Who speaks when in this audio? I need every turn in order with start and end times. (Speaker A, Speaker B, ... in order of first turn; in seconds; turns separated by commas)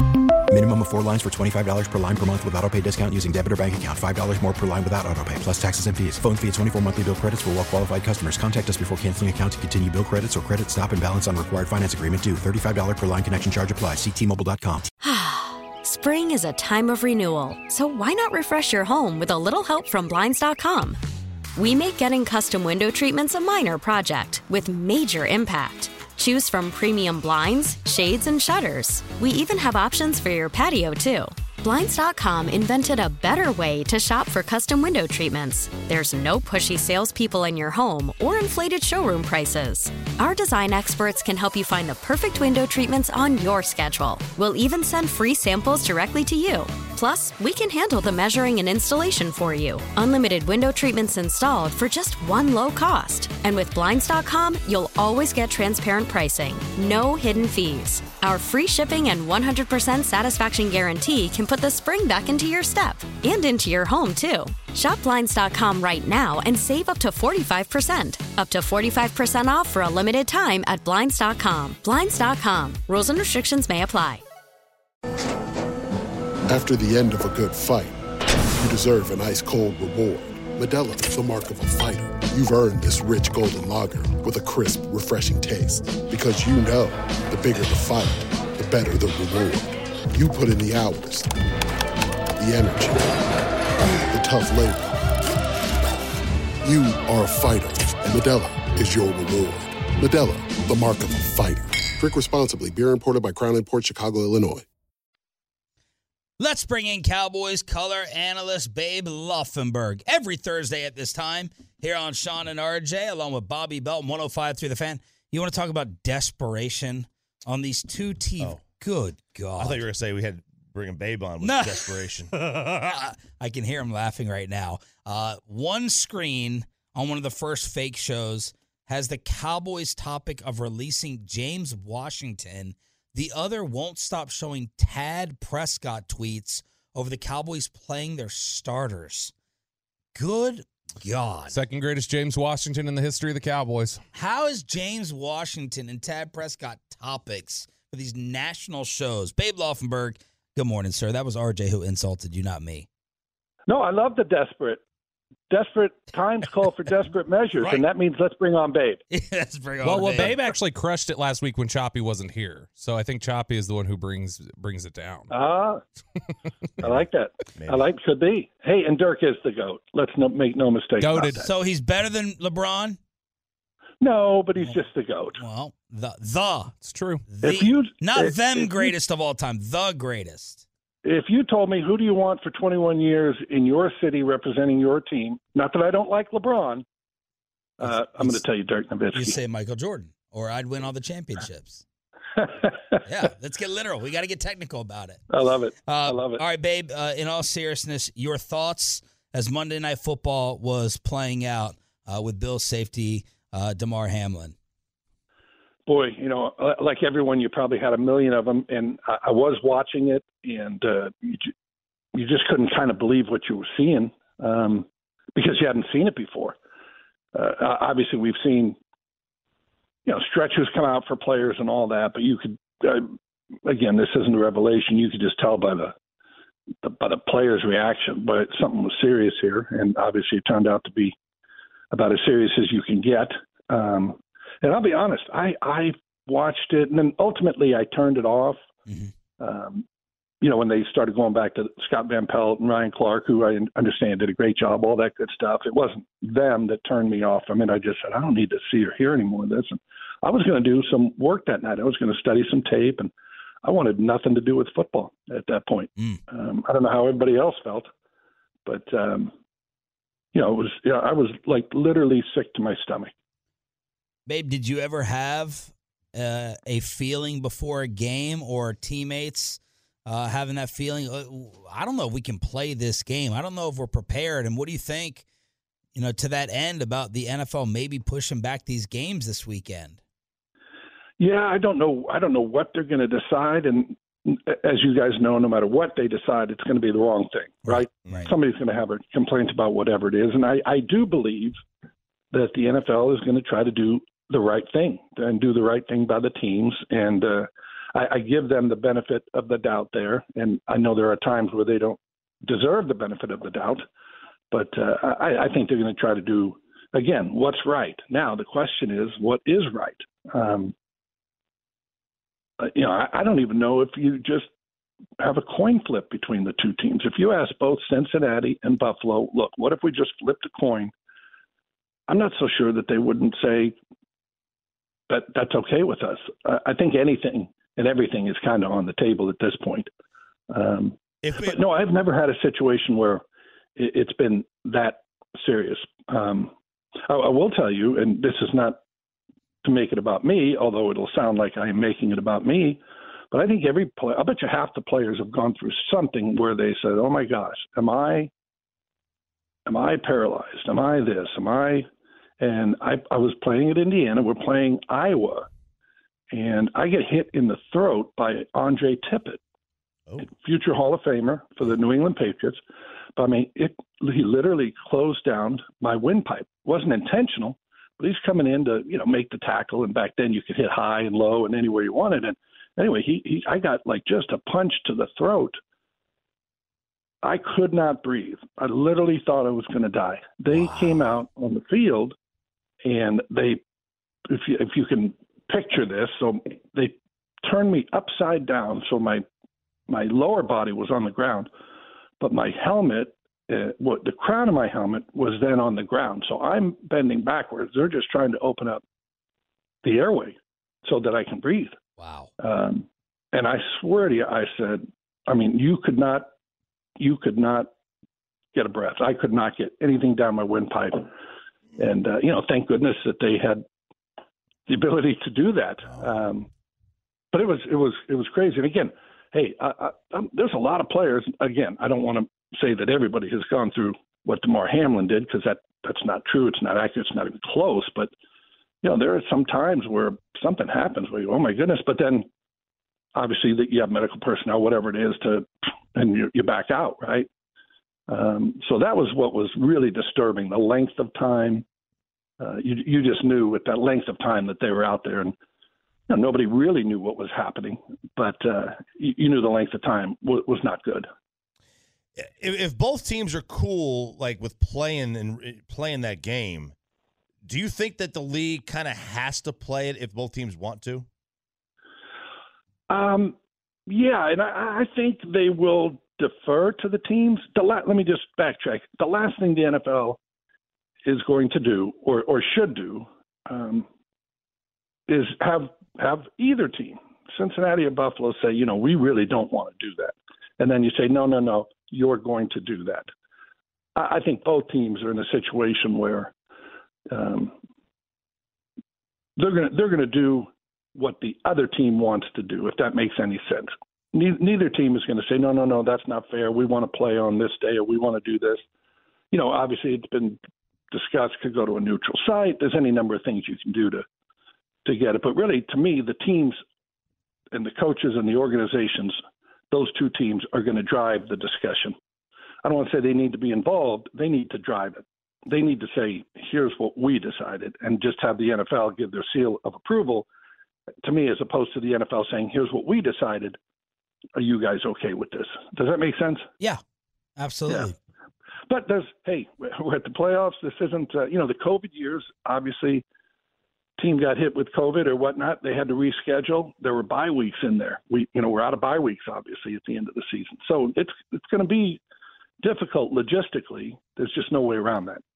Speaker A: 0.5-14.8, Speaker B: 15.0-21.0, Speaker B: 21.6-74.2, Speaker C: 76.5-78.0, Speaker C: 78.5-91.3, Speaker C: 92.4-93.2, Speaker C: 94.1-95.0, Speaker C: 96.6-104.7, Speaker D: 106.4-119.8, Speaker E: 119.6-122.3, Speaker D: 121.4-139.3, Speaker D: 140.1-141.5, Speaker F: 141.5-144.0, Speaker D: 144.1-152.9, Speaker G: 153.7-154.8, Speaker G: 155.5-159.0, Speaker E: 157.6-157.9, Speaker D: 159.1-160.4, Speaker F: 159.8-165.3, Speaker G: 165.3-165.8, Speaker G: 166.8-171.5, Speaker E: 167.5-167.9, Speaker F: 171.0-171.4, Speaker D: 171.4-173.0, Speaker G: 174.0-175.4, Speaker D: 175.3-176.8, Speaker F: 176.8-177.2, Speaker D: 177.3-180.6, Speaker G: 177.4-178.9, Speaker G: 181.0-186.8, Speaker G: 187.8-189.4, Speaker D: 187.8-188.4, Speaker D: 189.1-191.8, Speaker G: 192.4-192.7, Speaker D: 193.0-195.2, Speaker G: 195.3-196.4, Speaker D: 195.8-204.5, Speaker G: 205.9-211.5, Speaker G: 212.1-216.6, Speaker G: 217.3-218.8, Speaker G: 220.1-225.9, Speaker G: 226.8-231.1, Speaker G: 231.9-238.6, Speaker D: 238.9-239.1, Speaker G: 239.4-239.8, Speaker G: 240.4-253.1, Speaker G: 253.6-257.9, Speaker G: 258.6-259.3, Speaker G: 260.3-263.1, Speaker D: 264.3-275.2, Speaker D: 275.9-280.0, Speaker G: 281.2-291.6, Speaker D: 287.6-288.3, Speaker E: 288.0-288.3, Speaker G: 292.3-303.8, Speaker G: 304.5-310.7, Speaker G: 312.6-314.5, Speaker G: 315.2-320.9, Speaker G: 322.1-323.8, Speaker G: 325.1-329.9, Speaker G: 330.5-333.2, Speaker E: 331.2-331.6, Speaker G: 333.8-336.5, Speaker G: 337.1-338.8, Speaker G: 339.6-348.3, Speaker G: 349.6-351.9, Speaker G: 352.4-355.5, Speaker G: 356.3-359.4, Speaker G: 360.2-362.6, Speaker G: 363.1-375.6, Speaker G: 377.2-382.1, Speaker D: 380.5-381.0, Speaker G: 382.8-383.6, Speaker G: 384.3-389.2, Speaker G: 389.9-391.5, Speaker G: 392.2-398.8, Speaker G: 399.8-401.8, Speaker D: 402.0-402.3, Speaker G: 402.4-406.3, Speaker G: 407.0-407.7, Speaker G: 408.5-411.1, Speaker G: 411.8-413.6, Speaker G: 414.7-416.5, Speaker G: 417.3-428.1, Speaker G: 428.8-432.2, Speaker G: 433.1-437.3, Speaker G: 438.1-441.6, Speaker G: 442.4-445.3, Speaker G: 446.1-451.1, Speaker E: 452.2-456.7, Speaker E: 457.4-461.1, Speaker G: 462.9-463.4, Speaker G: 463.9-470.2, Speaker G: 471.0-473.9, Speaker G: 475.1-483.1, Speaker G: 483.9-486.3, Speaker G: 487.1-487.5, Speaker G: 489.4-498.6, Speaker G: 499.3-500.4, Speaker G: 500.9-504.0, Speaker G: 504.8-506.6, Speaker G: 507.5-509.2, Speaker G: 509.7-511.9, Speaker G: 512.6-520.3, Speaker G: 521.0-523.6, Speaker G: 524.4-526.5, Speaker D: 527.4-528.0, Speaker G: 528.7-533.0, Speaker G: 534.0-542.0, Speaker G: 542.6-545.2